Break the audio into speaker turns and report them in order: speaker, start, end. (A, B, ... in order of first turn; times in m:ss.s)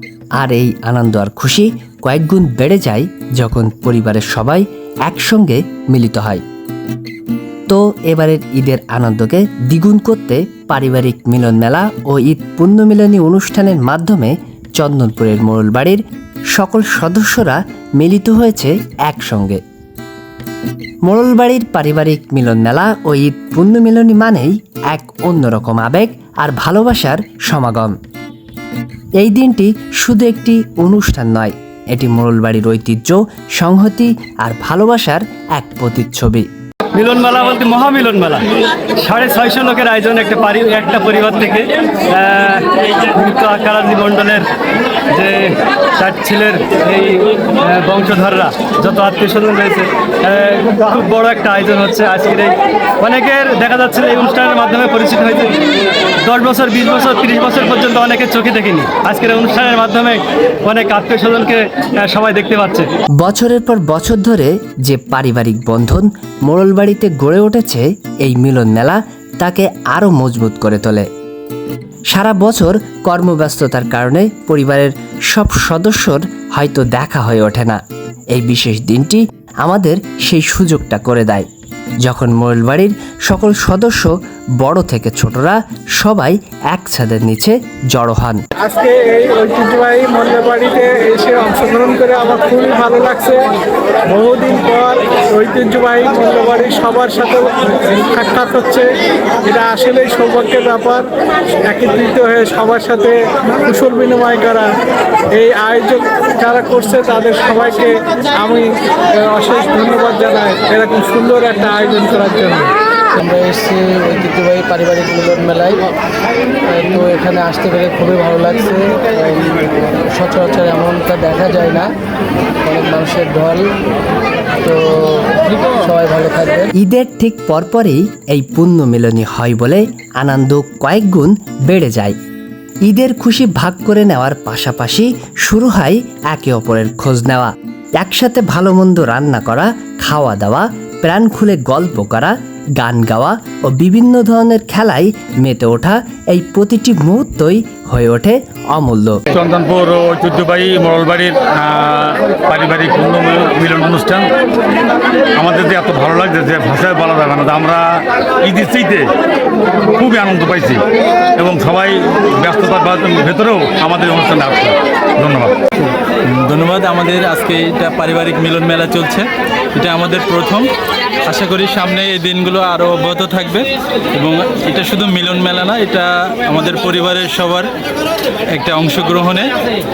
0:00.4-0:06.4 A
0:07.7-0:16.0 A
0:16.5-0:19.6 A
0:21.0-0:28.0 A
0:29.2-0:36.5 A
0:36.9-0:38.4 B
0:39.0-0:44.4 B
0:45.1-0:55.6 B
0:56.2-1:02.9 B
1:03.2-1:11.1 A
1:12.1-1:17.8 A
1:18.3-1:21.5 A
1:22.0-1:28.4 A
1:28.6-1:33.4 C
1:34.1-1:38.9 C
1:39.5-1:41.1 C
1:41.7-1:44.7 C
1:45.3-1:52.7 C
1:53.1-1:55.9 D
1:56.5-2:02.0 D
2:02.6-2:03.8 D
2:04.6-2:06.7 D
2:06.7-2:12.2 A
2:12.8-2:29.2 A
2:29.3-2:34.3 E
2:35.4-2:37.8 E
2:38.4-2:39.1 E
2:39.9-2:40.8 E
2:41.4-2:45.5 E
2:45.8-2:50.7 F
2:51.2-2:57.7 F
2:58.5-2:59.5 F